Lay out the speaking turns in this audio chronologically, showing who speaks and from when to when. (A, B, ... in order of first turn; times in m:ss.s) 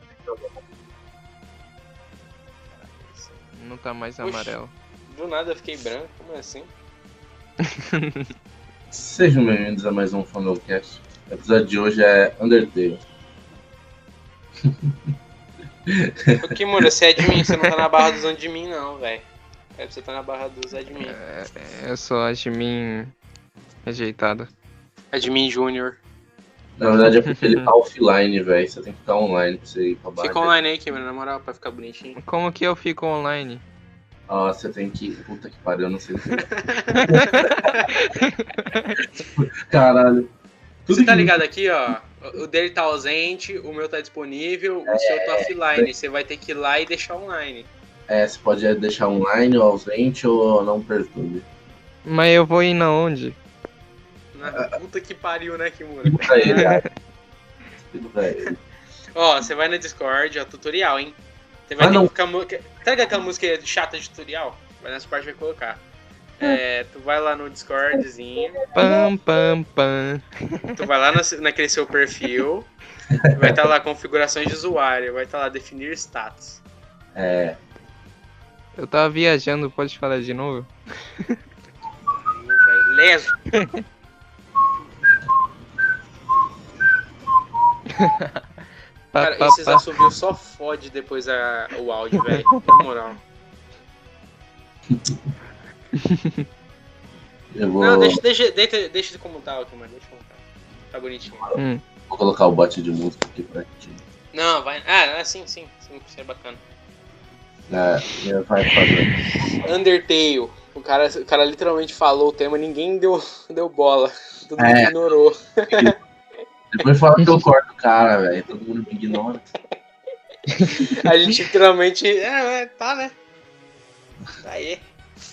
0:02.7-0:03.4 A
0:03.6-0:04.7 B
0:04.2-0:04.5 A
0:05.1-0:06.7 A
0:08.9-0:13.0 C
0:14.6-0:14.9 C
0:15.9-0:16.8 C
0:16.4-0:19.2 A
0:17.4-0:17.6 B
0:19.8-0:21.2 A
0:21.0-0:23.1 B
0:23.8-0:24.5 B
0:25.1-0:26.0 A
0:26.8-0:30.5 C
0:27.3-0:27.7 B
0:30.2-0:32.2 A
0:32.2-0:33.6 B
0:34.3-0:36.5 C
0:36.2-0:37.8 A
0:36.9-0:39.0 B
0:37.1-0:37.7 C
0:39.0-0:40.3 C
0:40.9-0:41.4 C
0:40.9-0:47.7 A
0:44.9-0:45.9 C
0:48.1-0:51.5 C
0:52.1-0:53.4 B
0:54.3-0:56.7 A
0:56.0-0:56.8 C
0:56.5-0:56.9 B
0:57.8-0:58.5 C
0:59.2-1:01.2 A
1:01.7-1:05.8 A
1:01.8-1:02.1 C
1:06.4-1:08.6 A
1:08.7-1:10.8 B
1:08.8-1:09.1 C
1:10.8-1:12.7 A
1:13.3-1:16.6 A
1:17.2-1:17.6 C
1:18.8-1:20.7 B
1:22.1-1:23.4 A
1:28.0-1:28.4 B
1:29.1-1:29.8 B
1:29.2-1:33.2 A
1:32.2-1:32.8 B
1:34.9-1:35.2 C
1:36.0-1:36.4 B
1:37.5-1:38.2 C
1:37.8-1:40.4 A
1:40.9-1:41.6 A
1:41.6-1:41.8 B
1:42.1-1:44.0 C
1:44.3-1:46.6 A
1:47.7-1:49.6 C
1:49.4-1:56.0 A
1:54.6-1:55.0 C
1:56.8-1:59.4 C
1:59.1-1:59.7 A
2:00.5-2:00.9 B
2:00.7-2:03.2 A
2:04.4-2:04.8 A